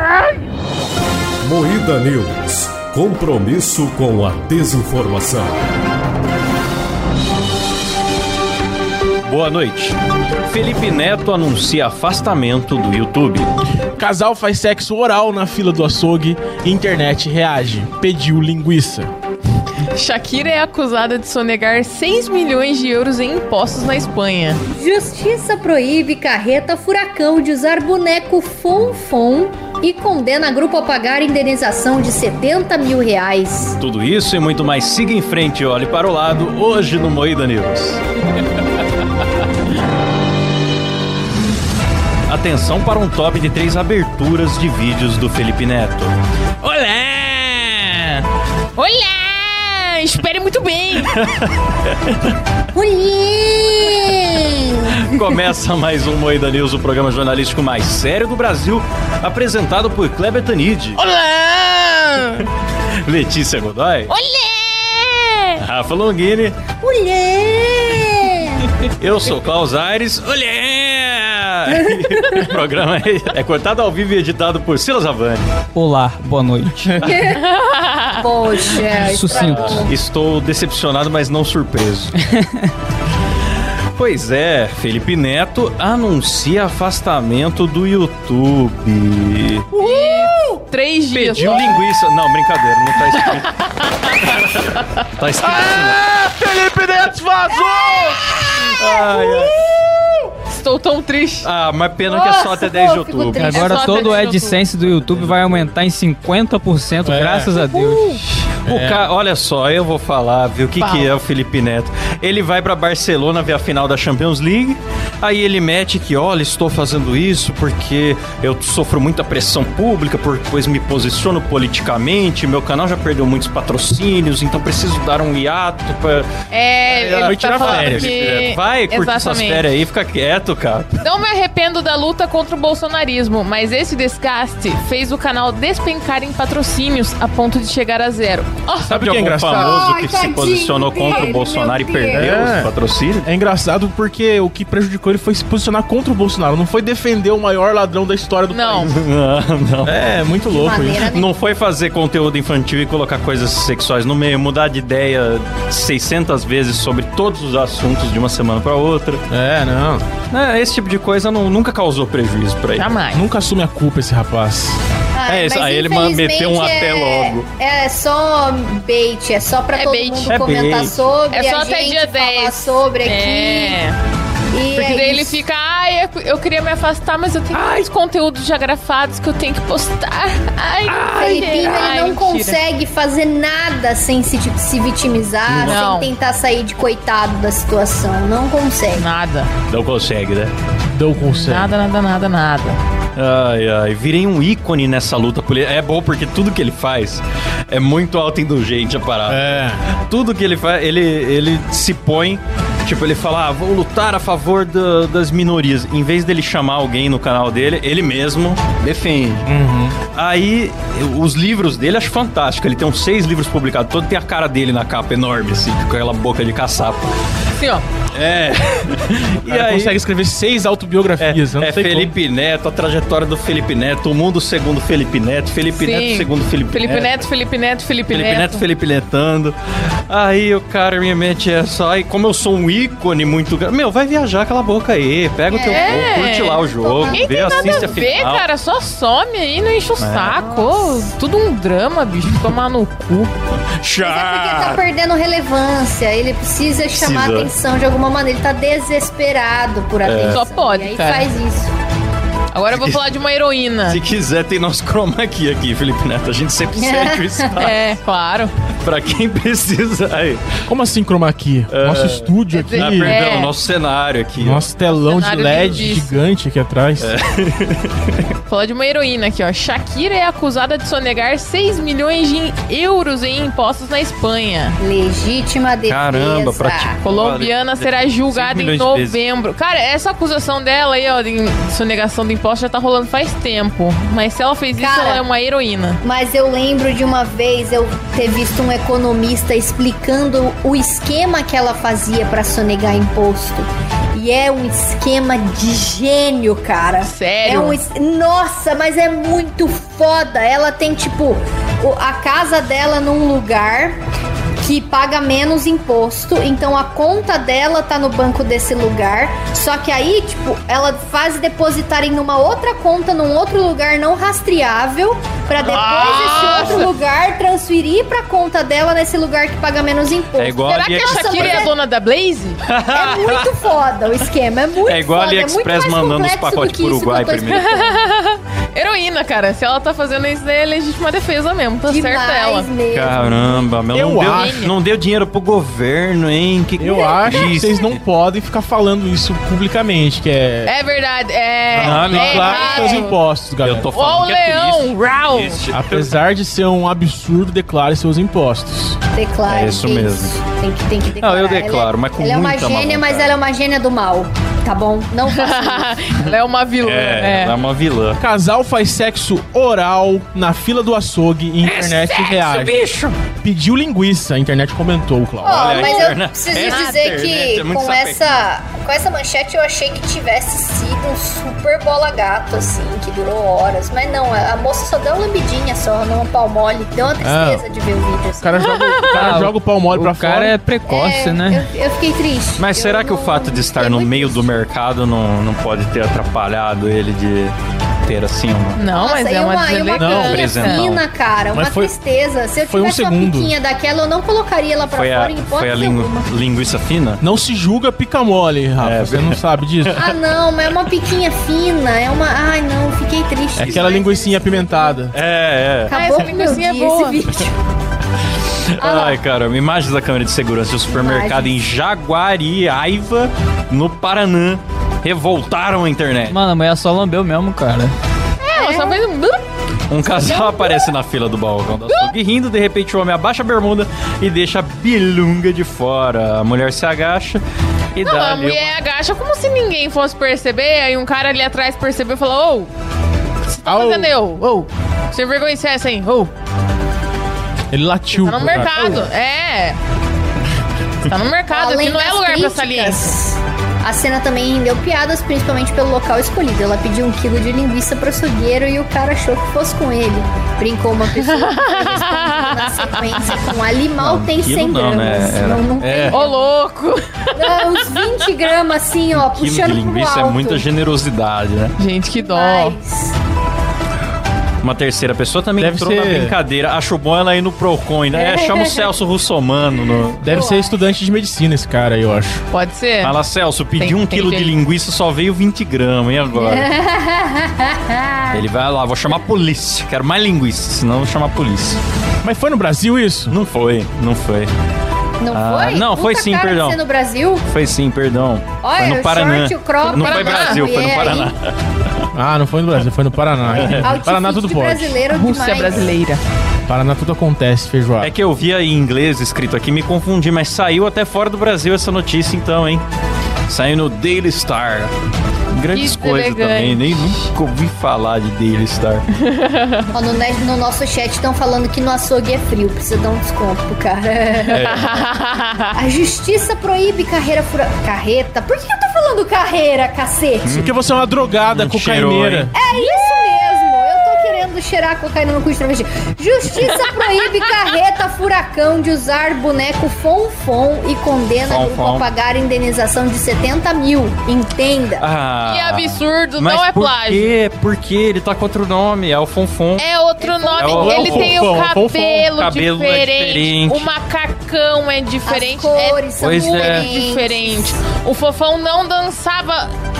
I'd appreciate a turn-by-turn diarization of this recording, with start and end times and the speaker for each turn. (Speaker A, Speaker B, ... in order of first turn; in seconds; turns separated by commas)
Speaker A: 1.4-5.6, Speaker B: 9.2-13.5, Speaker C: 14.0-19.1, Speaker D: 19.9-24.6, Speaker E: 24.7-33.8, Speaker B: 33.8-38.0, Speaker B: 42.3-48.2, Speaker D: 48.8-51.1, Speaker B: 51.1-51.5, Speaker E: 52.7-55.0, Speaker B: 54.9-61.0, Speaker C: 61.0-62.5, Speaker B: 63.0-64.1, Speaker D: 64.1-65.6, Speaker B: 65.6-66.6, Speaker E: 66.8-68.7, Speaker B: 69.0-75.5, Speaker F: 75.7-77.0, Speaker E: 77.0-77.4, Speaker D: 77.3-78.7, Speaker E: 78.2-79.9, Speaker F: 79.0-79.9, Speaker B: 79.2-82.1, Speaker B: 84.0-90.0, Speaker D: 89.8-91.8, Speaker B: 91.1-93.5, Speaker B: 94.2-96.0, Speaker C: 95.4-99.4, Speaker B: 98.7-99.6, Speaker D: 100.5-101.5, Speaker B: 101.4-103.7, Speaker E: 102.0-104.3, Speaker F: 103.3-108.2, Speaker D: 103.5-104.6, Speaker B: 104.8-105.8, Speaker C: 107.0-107.7, Speaker B: 108.6-126.3, Speaker C: 108.7-109.0, Speaker D: 110.8-111.1, Speaker D: 126.5-129.7, Speaker B: 126.9-131.0, Speaker C: 127.1-128.2, Speaker D: 131.0-138.9, Speaker B: 138.8-143.3, Speaker C: 138.8-139.9, Speaker E: 139.6-142.4, Speaker C: 142.1-142.7, Speaker C: 143.2-149.0, Speaker D: 148.5-148.9, Speaker B: 148.8-150.0, Speaker C: 149.8-151.1, Speaker E: 150.5-151.3, Speaker B: 151.1-159.2, Speaker C: 159.3-160.0, Speaker B: 160.3-162.9, Speaker D: 162.8-163.3, Speaker C: 163.1-164.8, Speaker E: 165.1-173.8, Speaker B: 165.3-167.5, Speaker D: 169.7-170.5, Speaker B: 170.3-171.1, Speaker D: 171.3-173.9, Speaker E: 174.5-175.4, Speaker D: 174.7-182.6, Speaker B: 177.5-177.8, Speaker B: 180.9-181.7, Speaker E: 181.2-189.1, Speaker C: 185.4-185.8, Speaker D: 185.6-186.1, Speaker D: 188.9-189.5, Speaker B: 189.7-190.5, Speaker C: 190.9-191.7, Speaker D: 191.2-192.8, Speaker B: 193.2-209.5, Speaker C: 199.3-199.8, Speaker C: 209.4-210.0, Speaker B: 210.1-217.1, Speaker D: 217.6-217.8, Speaker B: 218.1-220.0, Speaker C: 219.5-222.1, Speaker B: 221.2-227.2, Speaker D: 225.7-228.6, Speaker B: 228.1-229.6, Speaker B: 230.1-238.4, Speaker E: 235.5-236.3, Speaker D: 235.6-243.3, Speaker E: 236.8-238.2, Speaker B: 240.0-240.4, Speaker E: 240.3-241.1, Speaker B: 243.8-244.8, Speaker E: 244.0-251.7, Speaker B: 246.9-247.5, Speaker B: 250.0-250.4, Speaker D: 250.3-251.3, Speaker D: 252.5-254.0, Speaker B: 252.7-253.1, Speaker B: 253.9-257.8, Speaker E: 256.7-257.6, Speaker D: 257.6-258.5, Speaker B: 258.8-260.5, Speaker C: 260.7-263.2, Speaker B: 261.7-264.7, Speaker D: 262.5-263.5, Speaker C: 264.4-267.1, Speaker D: 265.1-266.2, Speaker B: 267.0-268.2, Speaker D: 268.5-274.8, Speaker E: 274.8-277.0, Speaker B: 275.9-279.2, Speaker D: 277.0-286.0, Speaker E: 284.8-285.2, Speaker E: 286.0-304.0, Speaker D: 297.0-297.8, Speaker E: 304.6-321.7, Speaker D: 315.6-316.9, Speaker B: 315.9-316.9, Speaker B: 320.4-321.7, Speaker D: 320.7-322.6, Speaker B: 322.6-323.5, Speaker E: 322.9-328.0, Speaker B: 324.8-327.6, Speaker D: 327.4-332.7, Speaker E: 331.9-333.7, Speaker B: 332.9-338.0, Speaker C: 333.9-334.6, Speaker D: 334.3-334.8, Speaker C: 336.8-340.7, Speaker D: 340.6-343.2, Speaker C: 341.7-343.9, Speaker B: 341.7-342.9, Speaker B: 343.6-346.2, Speaker D: 343.9-345.6, Speaker C: 345.7-349.0, Speaker E: 349.1-355.9, Speaker B: 349.4-350.3, Speaker B: 351.2-353.4, Speaker D: 355.3-357.6, Speaker B: 356.2-358.2, Speaker C: 358.2-362.8, Speaker B: 361.6-363.2, Speaker C: 363.4-366.1, Speaker E: 365.4-378.7, Speaker B: 365.5-368.4, Speaker D: 366.6-367.1, Speaker C: 377.2-377.6, Speaker C: 378.4-380.6, Speaker D: 378.6-379.3, Speaker F: 379.1-381.6, Speaker E: 380.9-384.6, Speaker B: 382.6-388.8, Speaker D: 388.8-390.8, Speaker E: 388.8-396.3, Speaker C: 389.9-390.6, Speaker B: 390.2-391.0, Speaker C: 391.5-391.9, Speaker C: 392.6-393.5, Speaker B: 394.9-397.2, Speaker C: 397.2-400.0, Speaker B: 398.8-400.1, Speaker E: 399.9-405.0, Speaker C: 403.6-405.1, Speaker B: 405.1-406.0, Speaker E: 405.9-407.5, Speaker D: 405.9-407.3, Speaker B: 408.8-416.4, Speaker E: 408.8-409.2, Speaker E: 410.9-411.6, Speaker F: 416.3-417.9, Speaker D: 418.4-419.4, Speaker E: 418.5-419.1, Speaker B: 419.9-427.4, Speaker E: 420.1-420.9, Speaker D: 421.8-422.1, Speaker B: 427.9-428.8, Speaker D: 428.0-432.7, Speaker D: 433.5-436.3, Speaker C: 433.6-434.1, Speaker C: 437.7-439.1, Speaker D: 438.1-439.8, Speaker D: 441.1-443.1, Speaker E: 441.5-456.5, Speaker D: 451.2-453.5, Speaker B: 454.0-456.2, Speaker D: 456.1-457.9, Speaker E: 457.3-460.6, Speaker B: 459.1-461.7, Speaker D: 461.8-462.8, Speaker E: 462.1-463.1, Speaker B: 464.6-470.4, Speaker C: 465.6-466.4, Speaker E: 468.1-468.9, Speaker C: 470.2-472.4, Speaker E: 470.2-470.8, Speaker D: 472.5-473.2, Speaker B: 473.0-476.7, Speaker D: 473.8-474.5, Speaker E: 476.3-478.4, Speaker B: 478.3-481.8, Speaker C: 482.2-483.4, Speaker B: 483.3-484.5, Speaker E: 485.2-487.4, Speaker B: 485.3-486.8, Speaker B: 487.4-491.5, Speaker E: 488.6-491.3, Speaker D: 489.9-490.6, Speaker C: 492.1-495.0, Speaker B: 493.4-494.0, Speaker E: 493.6-495.9, Speaker D: 495.1-496.2, Speaker C: 496.7-498.1, Speaker B: 498.0-502.8, Speaker B: 503.5-504.9, Speaker B: 505.5-509.1, Speaker D: 505.7-507.1, Speaker D: 509.2-509.9, Speaker E: 509.9-514.7, Speaker D: 514.5-515.7, Speaker B: 514.5-515.1, Speaker E: 515.7-520.6, Speaker B: 520.4-522.5, Speaker C: 520.5-522.5, Speaker E: 522.5-535.0, Speaker D: 522.7-523.2, Speaker B: 531.4-532.1, Speaker B: 535.0-539.9, Speaker D: 535.5-537.3, Speaker D: 539.8-549.7, Speaker E: 540.2-540.9, Speaker B: 540.6-541.5, Speaker C: 540.7-542.3, Speaker B: 542.3-543.9, Speaker E: 545.2-547.8, Speaker B: 546.2-546.9